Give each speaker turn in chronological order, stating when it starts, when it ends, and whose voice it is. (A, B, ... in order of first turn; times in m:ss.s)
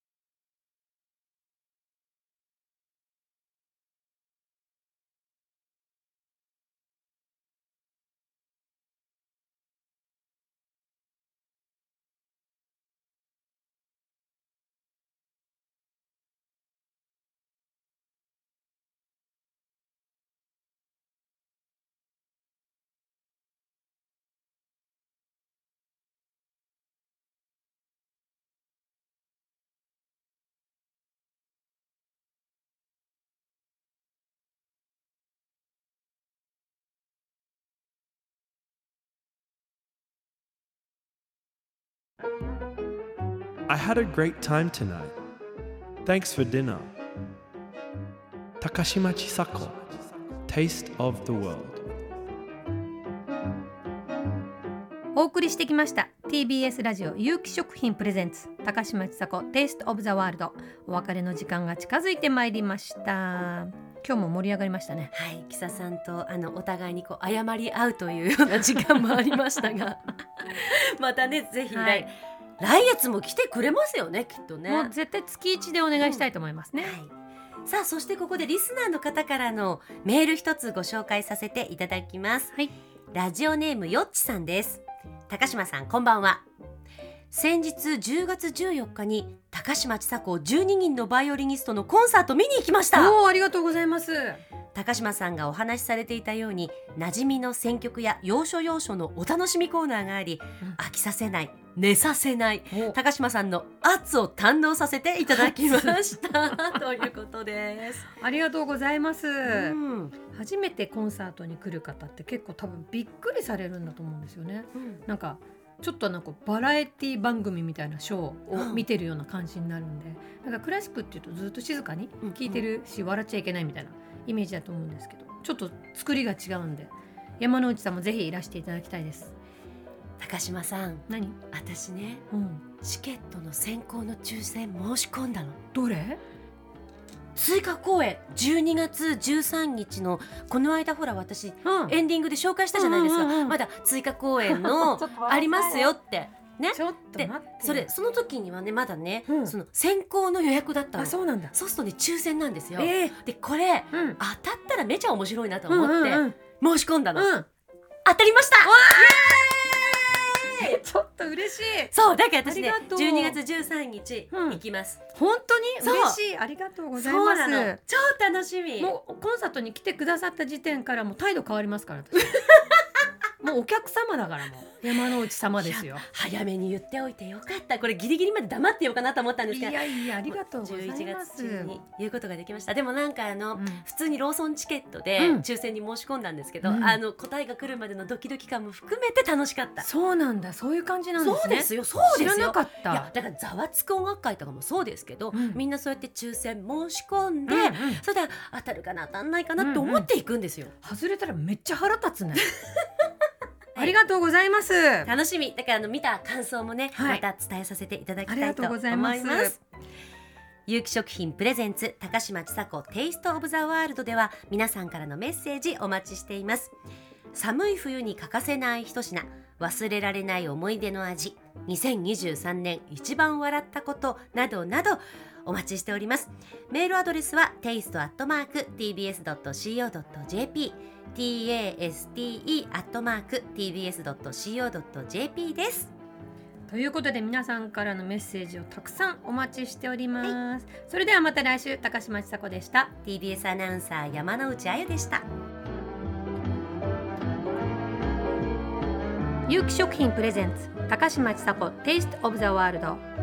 0:43.7-0:45.2 A
0:46.0-0:46.9 A
0:48.6-0:51.9 A
0:55.1-1:05.1 B
1:05.1-1:14.9 C
1:11.7-1:12.1 B
1:14.7-1:17.0 B
1:16.8-1:17.1 C
1:17.6-1:22.6 C
1:23.1-1:26.4 C
1:27.3-1:33.2 C
1:32.9-1:34.4 B
1:34.7-1:48.1 C
1:42.7-1:43.0 B
1:45.4-1:45.7 B
1:48.2-2:09.4 B
1:49.5-1:50.1 C
1:54.8-1:55.0 C
1:58.5-1:58.8 C
2:02.2-2:02.6 C
2:10.2-2:12.2 C
2:11.1-2:11.4 B
2:12.3-2:12.6 B
2:12.8-2:15.6 C
2:15.7-2:16.2 B
2:17.4-2:37.3 C
2:21.6-2:22.0 B
2:22.7-2:23.6 B
2:24.4-2:26.0 B
2:26.7-2:27.9 B
2:29.3-2:29.6 B
2:31.0-2:31.6 B
2:32.8-2:33.2 B
2:33.9-2:34.2 B
2:35.7-2:36.4 B
2:37.1-2:37.5 B
2:38.0-2:40.0 C
2:38.6-2:40.0 B
2:40.5-2:41.9 B
2:41.9-2:45.0 C
2:42.4-2:43.4 B
2:44.3-2:44.6 B
2:45.1-2:47.8 B
2:45.8-2:46.2 C
2:47.0-2:49.0 C
2:48.8-2:52.7 B
2:53.4-2:56.0 B
2:55.6-3:09.9 C
2:59.5-3:01.8 B
3:03.6-3:03.8 B
3:05.2-3:05.4 B
3:06.6-3:07.0 B
3:09.8-3:13.1 B
3:11.2-3:20.7 C
3:15.3-3:15.6 B
3:17.5-3:18.0 B
3:19.6-3:20.1 B
3:20.8-3:22.5 B
3:23.8-3:25.1 B
3:25.0-3:29.6 C
3:27.0-3:27.2 B
3:28.3-3:29.6 B
3:30.7-3:36.7 C
3:37.3-3:55.9 C
3:56.7-4:03.0 B
4:03.0-4:05.3 C
4:09.5-4:13.0 B